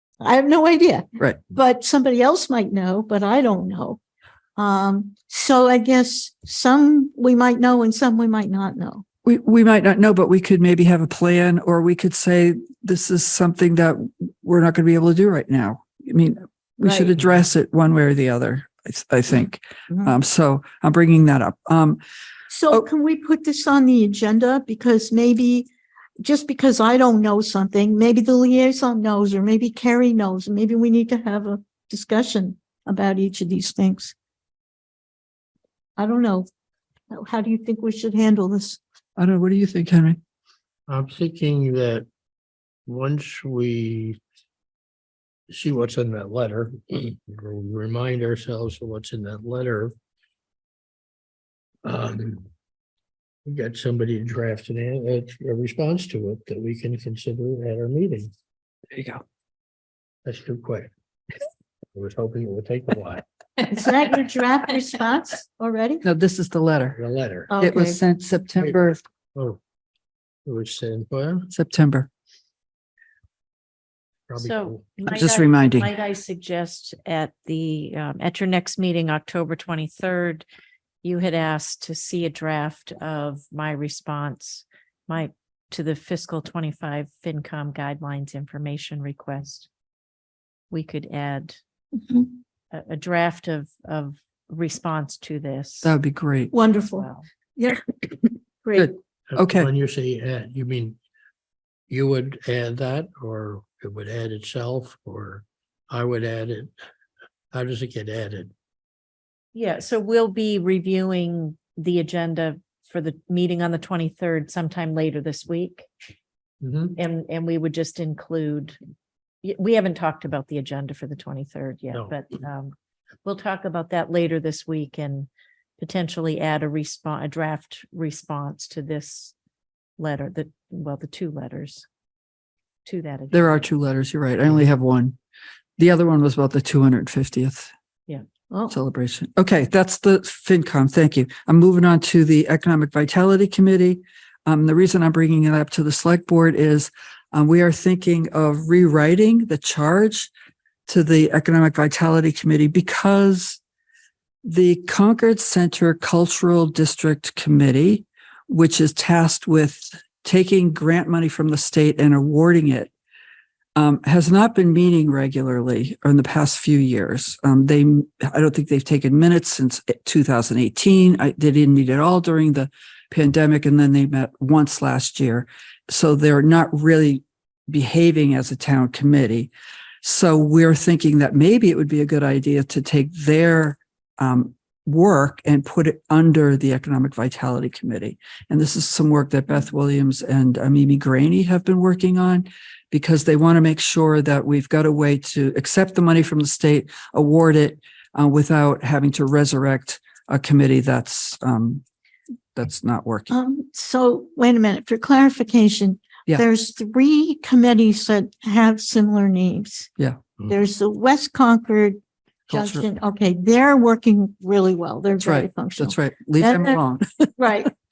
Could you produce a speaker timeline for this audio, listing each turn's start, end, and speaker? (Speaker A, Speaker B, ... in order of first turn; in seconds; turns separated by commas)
Speaker A: 0.2-4.0, Speaker A: 4.6-9.0, Speaker B: 9.2-22.0, Speaker A: 16.8-17.1, Speaker A: 22.5-25.7, Speaker A: 26.2-34.1, Speaker A: 36.0-36.5, Speaker A: 37.1-38.8, Speaker B: 39.2-40.2, Speaker C: 40.9-42.0, Speaker C: 42.9-44.2, Speaker C: 45.5-49.9, Speaker C: 51.8-52.5, Speaker C: 53.5-58.3, Speaker B: 58.9-59.2, Speaker C: 60.2-60.9, Speaker C: 61.9-63.2, Speaker A: 63.6-66.0, Speaker B: 66.0-67.0, Speaker C: 66.9-67.5, Speaker A: 67.5-68.0, Speaker B: 67.6-69.0, Speaker C: 70.5-71.5, Speaker B: 71.5-72.1, Speaker C: 74.3-74.8, Speaker D: 74.3-80.4, Speaker B: 75.1-75.9, Speaker D: 81.0-89.7, Speaker D: 90.7-91.6, Speaker A: 92.0-92.3, Speaker D: 92.7-95.9, Speaker B: 95.8-96.5, Speaker A: 96.5-97.0, Speaker D: 97.0-97.2, Speaker A: 97.6-98.1, Speaker A: 98.6-99.0, Speaker B: 98.8-99.7, Speaker C: 99.3-101.0, Speaker C: 101.9-106.7, Speaker C: 107.5-108.5, Speaker D: 109.5-115.9, Speaker C: 116.6-117.0, Speaker D: 117.0-118.8, Speaker D: 119.4-122.7, Speaker D: 123.2-129.3, Speaker D: 130.0-131.8, Speaker D: 132.8-133.6, Speaker B: 133.3-135.2, Speaker B: 135.8-137.7, Speaker A: 138.5-138.7, Speaker B: 138.7-150.3, Speaker B: 150.9-153.6, Speaker B: 154.4-162.9, Speaker B: 163.8-179.5, Speaker B: 180.0-201.8, Speaker B: 202.5-203.3, Speaker A: 203.3-209.9, Speaker A: 210.5-212.0, Speaker B: 212.5-212.9, Speaker A: 212.5-216.8, Speaker B: 215.2-217.7, Speaker A: 217.4-217.7